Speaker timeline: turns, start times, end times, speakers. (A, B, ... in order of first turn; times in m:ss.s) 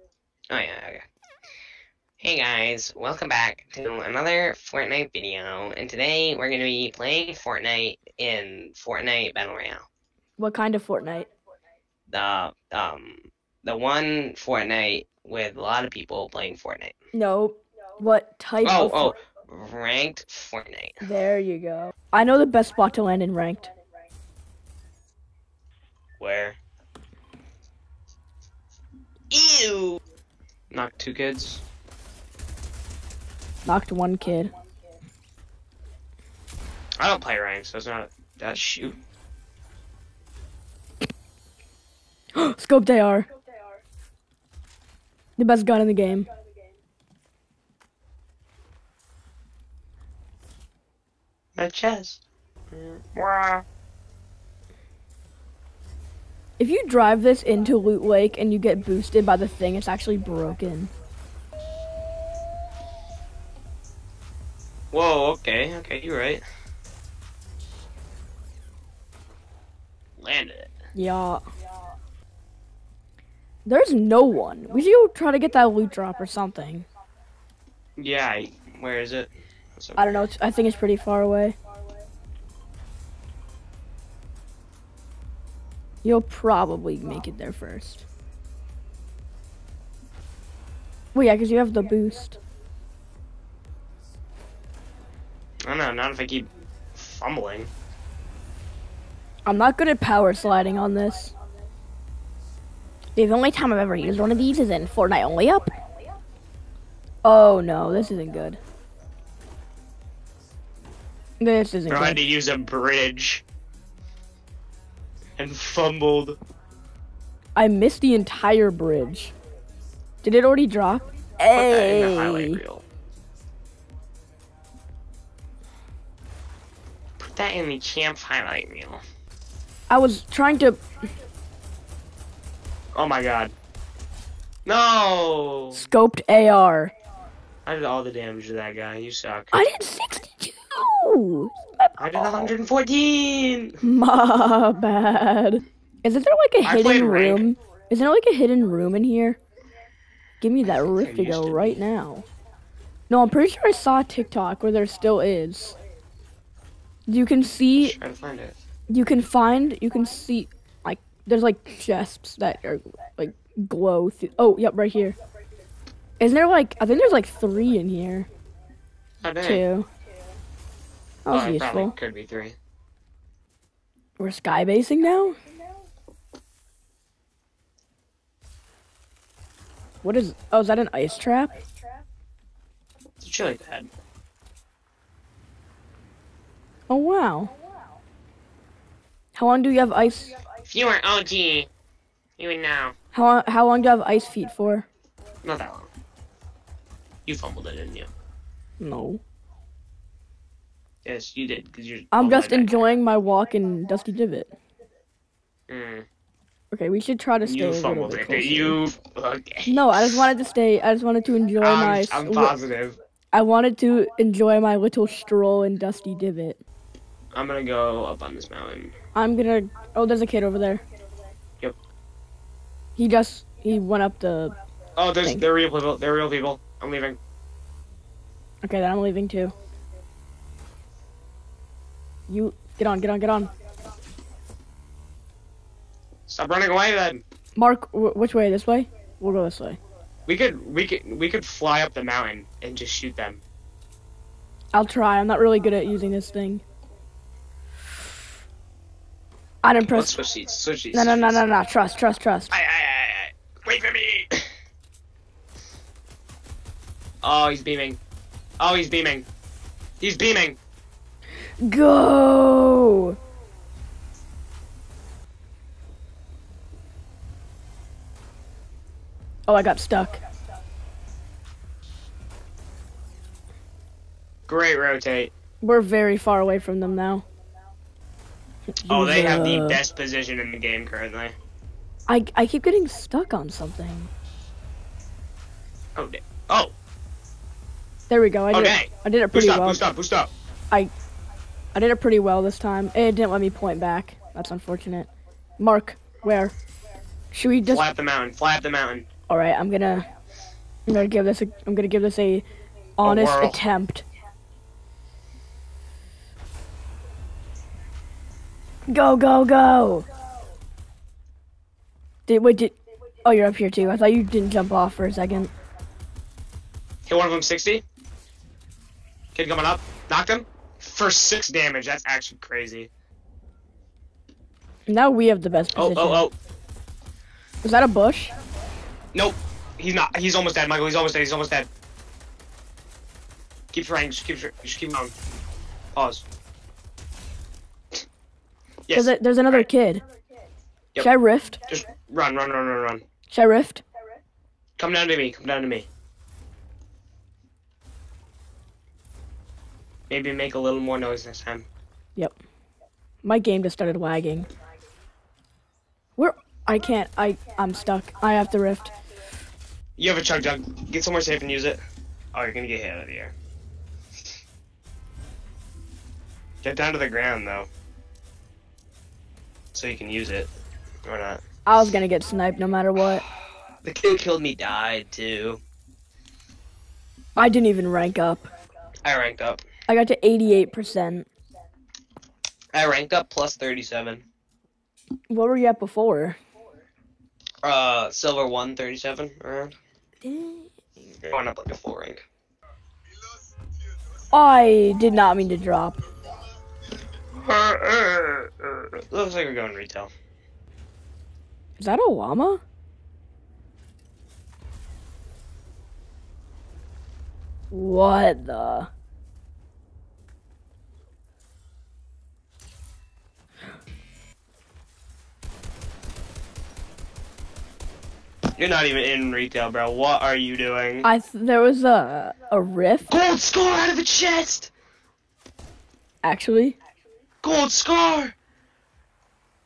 0:00.5-0:01.1 A
0:02.2-0:09.9 A
0:10.4-0:11.3 B
0:12.1-0:17.0 A
0:17.1-0:19.2 B
0:18.6-0:21.0 A
0:21.0-0:23.7 B
0:26.2-0:26.6 A
0:29.3-0:30.0 A
0:30.7-0:31.6 A
0:33.7-0:34.5 B
0:37.0-0:39.0 A
0:42.4-0:43.3 B
0:45.4-0:46.3 B
0:51.6-0:53.6 A
0:56.6-1:00.9 B
1:04.9-1:06.4 A
1:10.2-1:10.7 A
1:11.0-1:11.4 B
1:13.7-1:16.9 B
1:18.0-1:20.3 A
1:20.0-1:21.6 B
1:26.0-1:28.0 B
1:31.1-1:32.4 B
1:35.6-1:37.7 A
1:39.5-1:41.4 B
1:43.2-1:45.7 B
1:47.2-1:48.6 B
1:51.4-1:52.2 B
1:51.9-1:53.4 A
1:55.4-1:56.4 A
1:57.6-1:59.3 B
2:00.2-2:02.6 B
2:01.5-2:02.8 A
2:07.2-2:09.0 A
2:09.9-2:10.8 B
2:13.0-2:13.5 A
2:14.6-2:15.8 A
2:15.7-2:16.9 B
2:17.7-2:19.5 A
2:19.5-2:22.5 B
2:22.0-2:23.8 A
2:23.8-2:29.4 B
2:26.6-2:27.5 A
2:30.4-2:32.3 B
2:30.6-2:31.8 A
2:33.1-2:35.8 B
2:37.1-2:38.0 B
2:37.8-2:38.6 A
2:38.9-2:45.2 B
2:46.2-2:48.3 B
2:49.2-2:49.7 A
2:49.4-2:49.9 B
2:51.3-2:52.0 B
2:51.3-2:52.6 A
2:54.2-2:55.4 B
3:00.0-3:01.6 B
3:03.2-3:03.9 A
3:06.9-3:07.5 B
3:09.4-3:10.4 B
3:10.7-3:11.7 A
3:12.4-3:13.0 A
3:13.1-3:14.9 B
3:15.4-3:15.9 A
3:17.3-3:18.1 A
3:18.8-3:19.2 B
3:21.0-3:22.9 A
3:22.1-3:24.5 B
3:25.7-3:26.1 A
3:26.7-3:28.8 B
3:27.4-3:30.2 A
3:29.7-3:32.6 B
3:31.6-3:33.0 A
3:33.3-3:36.6 B
3:37.3-3:38.9 A
3:39.2-3:40.8 B
3:43.0-3:44.6 B
3:45.0-3:47.2 A
3:48.6-3:49.5 B
3:52.3-3:53.5 B
3:56.3-3:57.2 A
3:57.6-3:59.8 B
4:00.3-4:03.4 A
4:04.7-4:06.6 B
4:09.6-4:10.2 B
4:09.8-4:11.4 A
4:10.9-4:12.5 B
4:12.5-4:14.5 A
4:17.2-4:18.0 A
4:18.6-4:19.3 A
4:20.0-4:20.6 A
4:21.6-4:23.2 B
4:29.5-4:30.2 B
4:34.5-4:35.3 A
4:35.6-4:37.2 B
4:38.8-4:39.8 B
4:38.9-4:41.4 A
4:42.1-4:44.1 B
4:46.0-4:46.7 A
4:48.1-4:49.9 B
4:48.5-4:50.3 A
4:51.8-4:55.1 B
4:55.6-4:56.6 B
4:57.3-4:57.9 B
4:57.7-4:59.1 A
4:59.3-5:00.1 B
5:00.9-5:02.5 B
5:03.0-5:04.1 B
5:03.0-5:03.6 A
5:08.9-5:10.1 B
5:12.3-5:15.5 B
5:17.1-5:17.8 A
5:19.3-5:22.9 A
5:24.9-5:26.3 B
5:25.8-5:26.3 A
5:27.6-5:28.3 B
5:29.1-5:31.7 A
5:33.7-5:35.1 A
5:36.0-5:36.2 A
5:38.9-5:39.7 A
5:38.9-5:40.0 B
5:41.0-5:41.6 B
5:41.7-5:43.0 A
5:43.3-5:43.8 B
5:44.8-5:45.9 A
5:50.1-5:51.7 A
5:53.2-5:54.5 B
5:56.2-5:58.9 B
6:00.0-6:01.8 A
6:02.3-6:03.3 A
6:06.6-6:07.7 A
6:09.7-6:10.5 A
6:11.0-6:11.4 A
6:11.7-6:13.3 B
6:13.8-6:15.6 A
6:17.4-6:18.5 B
6:19.0-6:19.6 A
6:19.9-6:21.3 B
6:22.7-6:24.2 A
6:25.3-6:26.4 B
6:27.6-6:29.8 A
6:30.2-6:30.7 B
6:31.2-6:32.2 A
6:34.3-6:36.0 B
6:37.3-6:40.1 A
6:41.8-6:42.6 B
6:47.7-6:48.9 B
6:58.6-7:01.1 A
7:01.0-7:03.1 B
7:03.1-7:04.7 A
7:06.2-7:06.8 B
7:07.4-7:08.3 A